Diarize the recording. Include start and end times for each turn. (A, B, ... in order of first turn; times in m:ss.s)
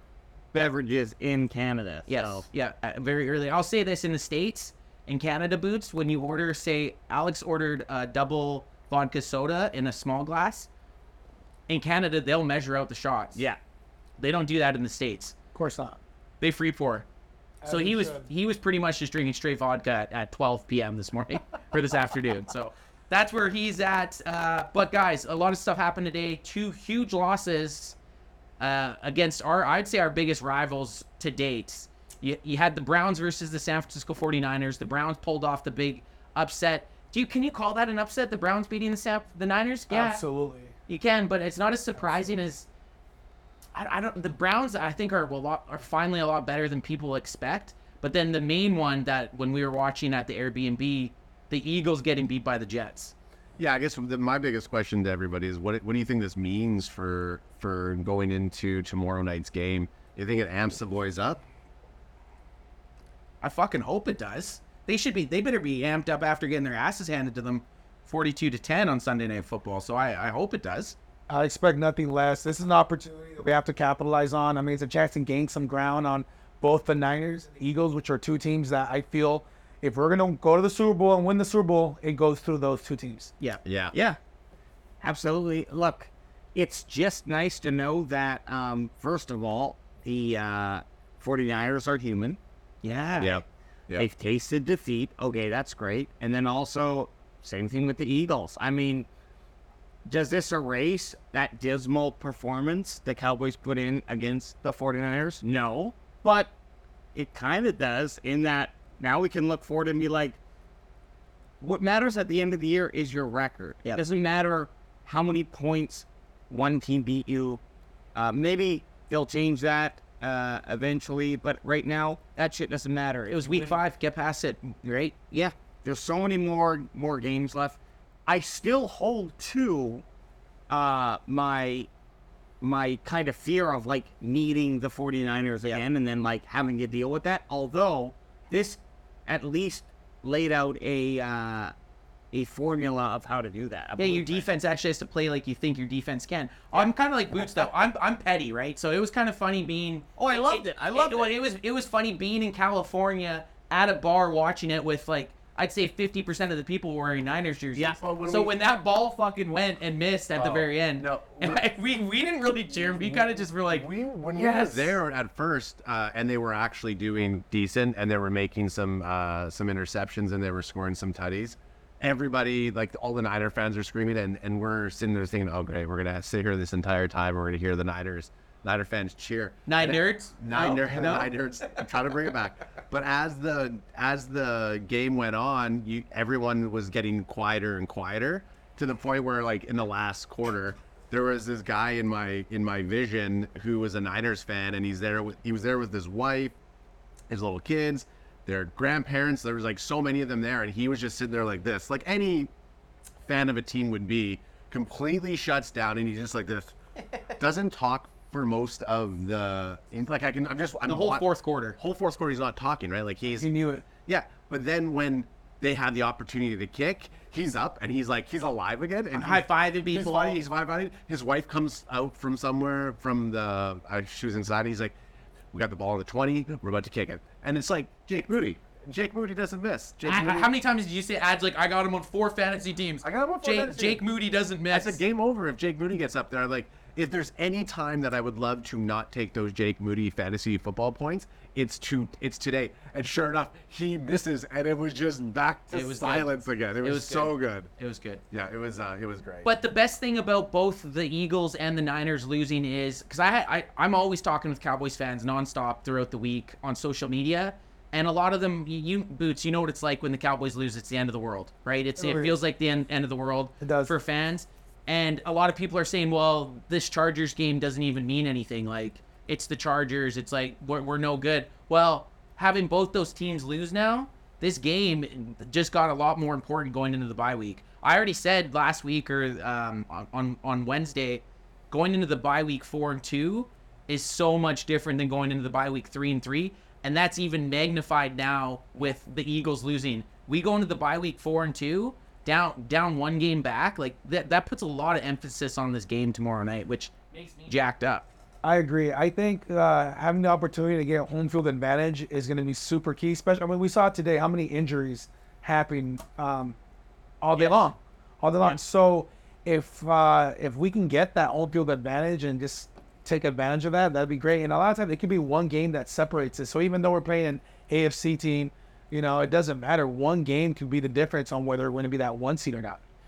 0:00.5-0:02.5 A
0:02.1-0:10.7 B
0:11.7-0:13.4 B
0:14.2-0:15.4 B
0:15.6-0:16.0 C
0:16.4-0:17.1 B
0:17.6-0:18.3 C
0:17.7-0:28.0 B
0:28.6-0:40.2 B
0:39.9-0:40.7 C
0:40.9-0:42.7 B
0:42.0-0:42.3 C
0:43.8-0:53.1 B
0:53.6-1:01.4 D
1:03.4-1:11.0 B
1:11.3-1:23.3 C
1:23.6-1:23.9 D
1:23.9-1:24.2 A
1:25.0-1:32.4 A
1:32.8-1:33.4 B
1:33.2-1:34.1 D
1:34.0-1:39.1 A
1:40.1-1:46.5 A
1:47.2-1:50.4 A
1:51.6-1:57.6 A
1:58.2-2:03.8 A
2:03.3-2:05.2 B
2:05.3-2:10.0 A
2:10.7-2:11.9 A
2:12.6-2:21.7 A
2:22.3-2:24.5 A
2:24.0-2:43.9 B
2:30.2-2:31.3 A
2:38.0-2:38.5 D
2:40.4-2:41.6 D
2:43.0-3:16.5 D
2:44.4-2:45.0 A
2:59.7-3:01.3 B
3:17.3-3:22.5 D
3:23.2-3:26.8 D
3:27.3-3:31.2 D
3:30.9-3:31.8 B
3:31.8-3:33.5 D
3:33.4-3:33.8 C
3:34.0-3:45.0 D
3:39.1-3:40.4 B
3:45.5-3:50.5 D
3:50.0-3:55.0 B
3:53.0-3:54.0 D
3:54.7-4:07.7 D
4:05.7-4:06.3 B
4:06.8-4:08.2 B
4:08.3-4:09.5 D
4:09.4-4:58.1 B
4:22.0-4:22.3 C
4:23.6-4:24.0 C
4:58.4-5:06.6 C
5:07.2-5:22.8 C
5:07.4-5:07.7 B